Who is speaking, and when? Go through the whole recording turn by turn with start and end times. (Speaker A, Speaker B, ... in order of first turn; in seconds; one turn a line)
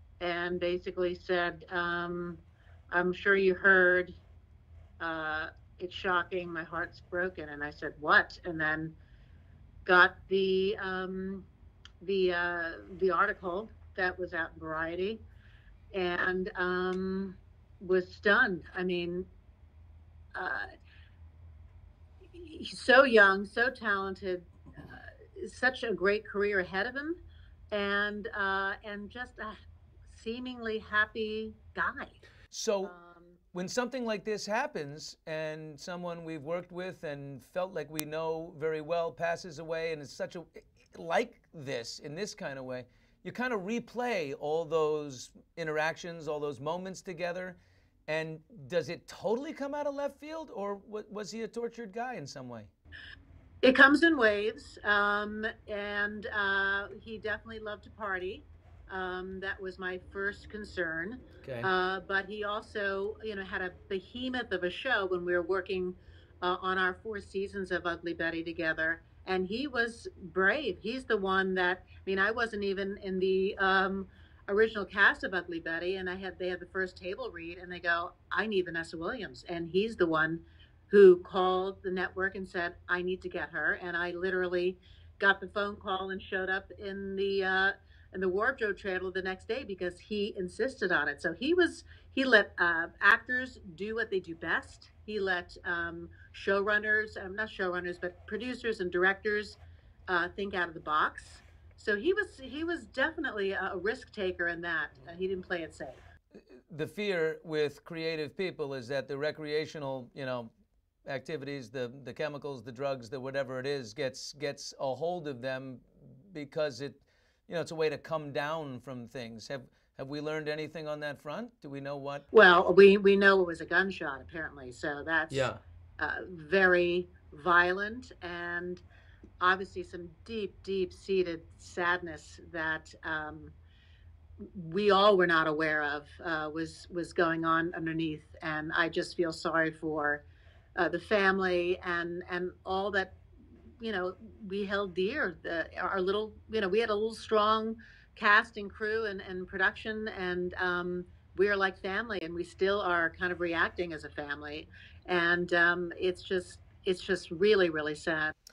Speaker A: 0.2-4.2
Speaker A: 5.0-8.9
Speaker A: 9.8-11.4
Speaker A: 12.0-15.2
Speaker A: 15.9-19.3
Speaker A: 20.3-20.7
Speaker A: 22.3-27.2
Speaker A: 27.7-29.6
Speaker A: 30.1-32.2
Speaker B: 32.5-32.9
Speaker A: 32.8-33.4
Speaker B: 33.5-47.6
Speaker B: 48.1-52.7
Speaker A: 53.6-106.0
Speaker B: 61.4-61.7
Speaker B: 106.7-110.5
Speaker B: 111.0-122.2
Speaker A: 122.3-128.8
Speaker B: 125.3-125.6
Speaker A: 129.4-133.5
Speaker A: 134.5-140.2
Speaker A: 140.8-143.1
Speaker A: 143.8-158.3